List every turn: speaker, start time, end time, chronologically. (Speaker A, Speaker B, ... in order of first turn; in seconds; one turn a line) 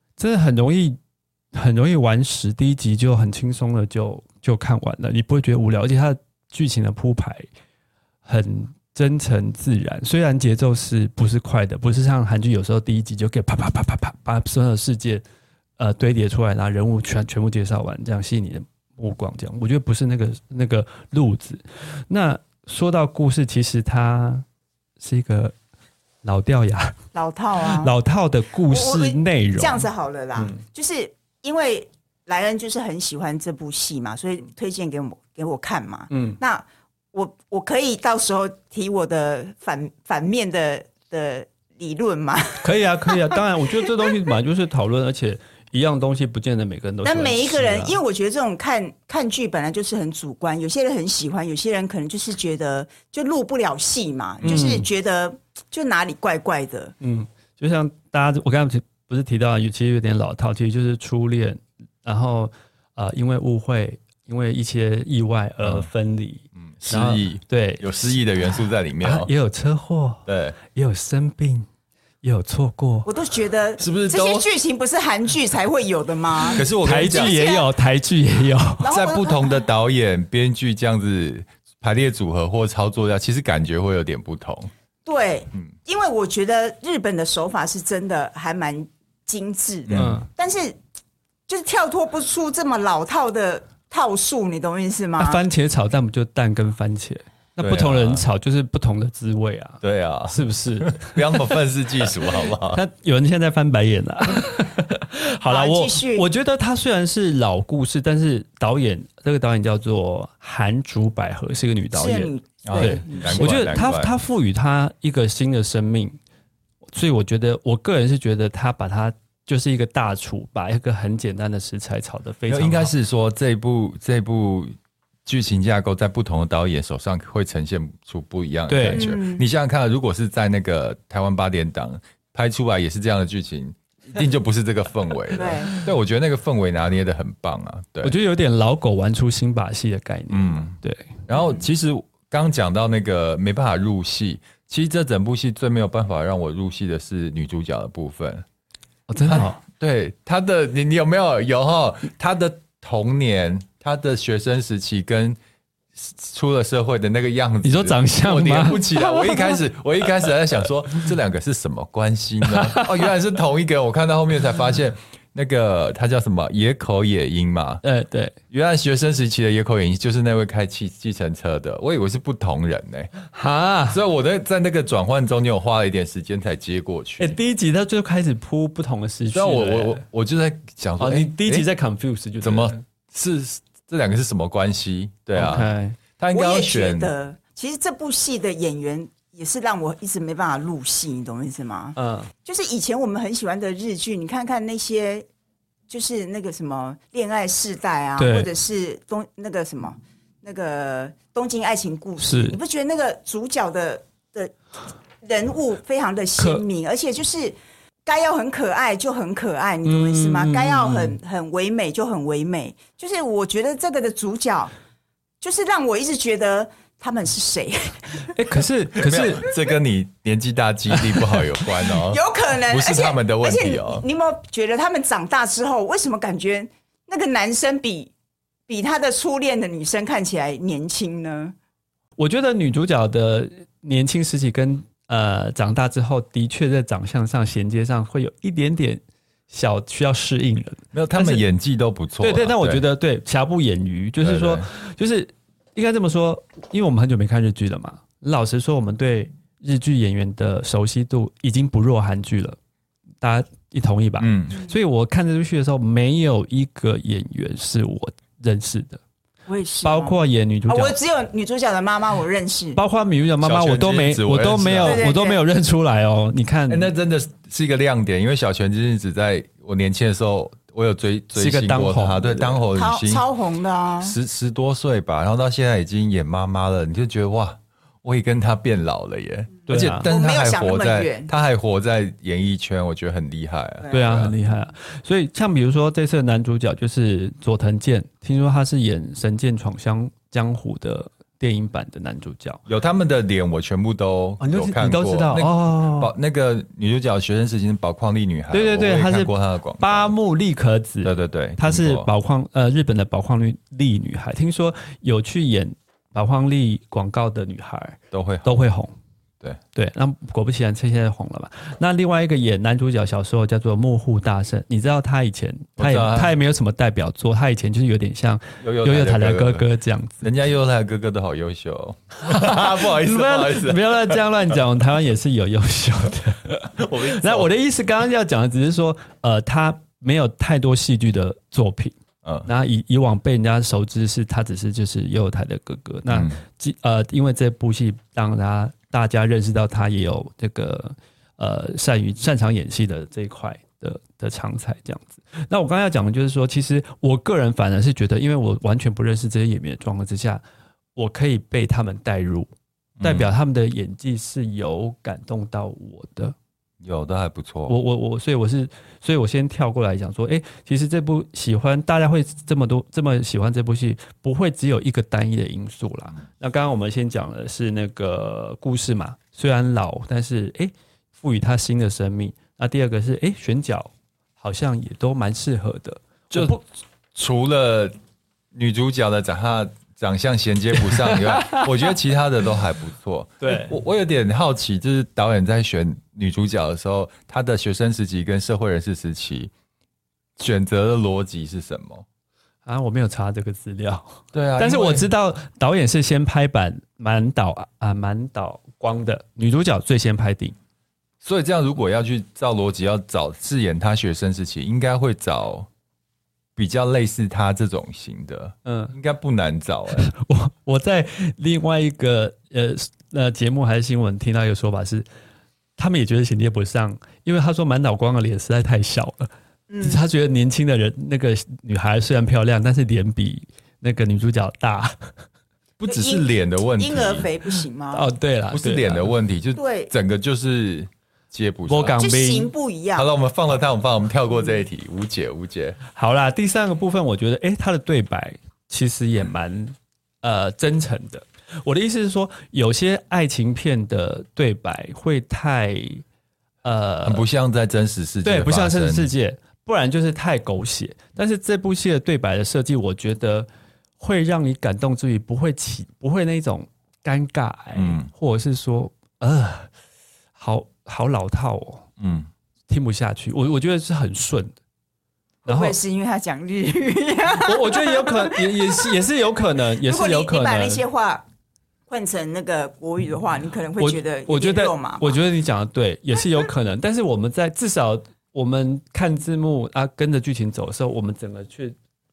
Speaker A: 0.2-1.0
Speaker A: 1.5-7.5
Speaker A: 8.2-15.2
Speaker A: 15.8-24.4
Speaker A: 25.0-25.5
Speaker A: 26.2-27.0
Speaker B: 27.1-27.9
Speaker A: 27.7-30.6
Speaker B: 28.7-44.2
Speaker A: 36.1-36.4
Speaker A: 42.6-48.0
Speaker B: 47.0-56.9
Speaker A: 54.4-54.9
Speaker A: 57.0-68.1
Speaker C: 65.6-65.9
Speaker C: 66.6-69.3
Speaker A: 69.0-71.7
Speaker C: 70.2-70.6
Speaker A: 72.2-73.1
Speaker B: 73.0-77.7
Speaker C: 73.8-74.5
Speaker C: 76.5-77.4
Speaker A: 76.5-78.9
Speaker B: 78.8-79.6
Speaker C: 78.8-84.7
Speaker B: 85.0-90.8
Speaker C: 89.9-90.2
Speaker A: 89.9-90.3
Speaker B: 91.5-95.4
Speaker A: 95.2-101.5
Speaker C: 97.6-98.2
Speaker C: 99.8-102.8
Speaker A: 102.7-116.2
Speaker B: 105.5-106.3
Speaker B: 111.9-113.8
Speaker C: 112.6-114.1
Speaker A: 116.9-122.9
Speaker C: 122.5-124.7
Speaker C: 125.2-138.1
Speaker A: 128.7-129.1
Speaker B: 128.9-129.4
Speaker B: 135.4-135.7
Speaker A: 138.0-141.2
Speaker C: 140.3-148.4
Speaker A: 149.1-149.6
Speaker C: 149.2-155.4
Speaker C: 155.9-167.8
Speaker A: 157.6-159.5
Speaker A: 162.5-163.0
Speaker A: 167.8-168.3
Speaker C: 168.5-173.1
Speaker A: 173.3-174.0
Speaker C: 173.9-177.4
Speaker A: 177.2-180.0
Speaker C: 179.3-181.7
Speaker A: 181.0-182.8
Speaker C: 182.4-187.1
Speaker A: 185.3-186.0
Speaker B: 186.3-195.3
Speaker A: 192.0-192.3
Speaker B: 195.9-204.6
Speaker A: 198.2-198.5
Speaker A: 202.2-202.6
Speaker B: 205.2-214.7
Speaker A: 206.4-206.6
Speaker A: 209.8-211.2
Speaker B: 215.4-218.3
Speaker A: 218.3-219.5
Speaker C: 218.9-224.0
Speaker B: 221.9-228.1
Speaker B: 228.7-231.5
Speaker A: 232.2-241.4
Speaker C: 240.9-242.8
Speaker A: 242.2-252.6
Speaker C: 244.2-244.7
Speaker A: 253.2-259.0
Speaker C: 254.2-254.6
Speaker B: 259.5-260.2
Speaker A: 259.8-260.9
Speaker B: 260.7-262.8
Speaker A: 262.8-266.9
Speaker C: 263.4-265.1
Speaker B: 264.8-265.4
Speaker C: 266.7-273.2
Speaker A: 271.3-272.6
Speaker B: 272.7-274.1
Speaker C: 274.0-284.3
Speaker A: 279.7-280.1
Speaker B: 280.0-281.3
Speaker B: 283.8-284.1
Speaker A: 283.9-292.6
Speaker C: 292.7-300.1
Speaker A: 294.4-296.1
Speaker A: 298.5-308.9
Speaker C: 301.0-302.1
Speaker C: 308.1-308.6
Speaker A: 309.7-320.2
Speaker C: 315.8-316.3
Speaker C: 318.6-319.6
Speaker C: 320.2-324.2
Speaker A: 322.3-350.4
Speaker C: 326.7-327.5
Speaker C: 332.2-332.5
Speaker C: 336.1-336.4
Speaker A: 350.9-352.5
Speaker C: 353.0-353.3
Speaker A: 353.0-356.3
Speaker C: 356.8-357.8
Speaker A: 357.7-376.6
Speaker C: 376.3-376.6
Speaker C: 377.1-377.9
Speaker C: 378.5-389.5
Speaker A: 380.8-381.9
Speaker A: 383.4-383.8
Speaker C: 390.4-392.0
Speaker A: 392.6-400.5
Speaker C: 394.3-395.1
Speaker C: 401.2-405.7
Speaker C: 406.6-410.1
Speaker A: 408.6-408.9
Speaker A: 409.9-415.1
Speaker A: 415.8-425.1
Speaker B: 419.7-420.0
Speaker C: 425.8-427.3
Speaker B: 425.9-428.1
Speaker A: 427.9-429.1
Speaker C: 428.5-432.0
Speaker B: 429.6-429.9
Speaker A: 431.7-432.5
Speaker B: 432.0-433.1
Speaker C: 432.9-435.8
Speaker A: 435.9-446.0
Speaker A: 446.6-447.2
Speaker C: 447.0-449.1
Speaker A: 448.2-453.5
Speaker A: 454.0-459.7
Speaker C: 457.7-458.1
Speaker A: 460.4-461.9
Speaker C: 462.0-462.3
Speaker A: 462.7-464.5
Speaker B: 465.4-469.0
Speaker A: 465.4-465.8
Speaker A: 467.4-470.8
Speaker B: 469.8-471.2
Speaker B: 471.9-475.2
Speaker A: 473.8-481.7